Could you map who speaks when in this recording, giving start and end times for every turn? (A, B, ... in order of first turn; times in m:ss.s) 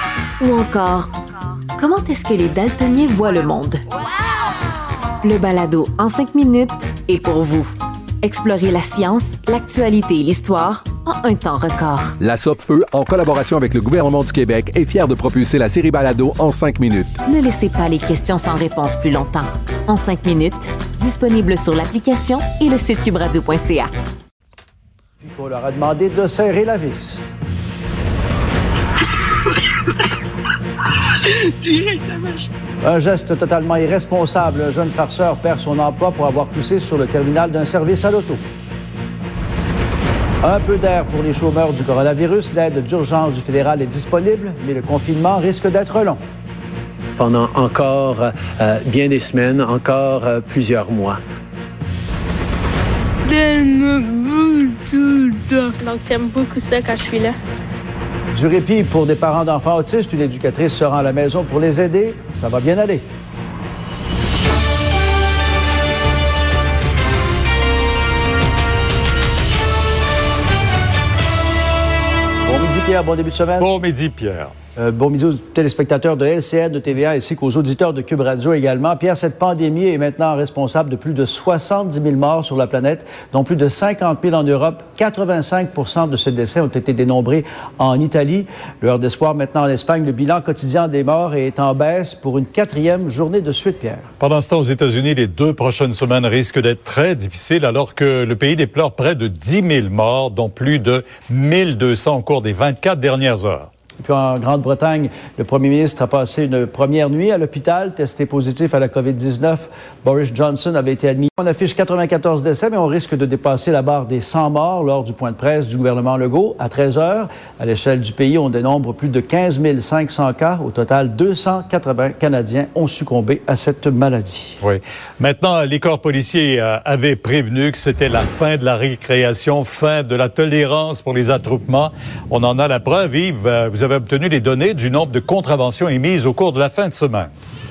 0:00.4-0:01.1 A
0:01.8-0:03.8 A
0:05.2-0:07.7 A
0:08.2-0:12.1 A
0:12.2-0:17.1 B
0:17.2-0:23.9 A
0:25.2-0:27.2 C
0:31.6-0:32.5 D
0:32.8-0:38.4 C
0:40.4-0:46.2 C
0:47.2-0:51.2 E
0:53.2-0:57.4 D
0:58.3-1:03.0 C
1:12.4-1:13.7 C
1:13.6-1:14.5 F
1:14.8-1:34.1 C
1:34.2-1:43.7 F
1:44.0-2:04.6 C
2:04.6-2:17.3 F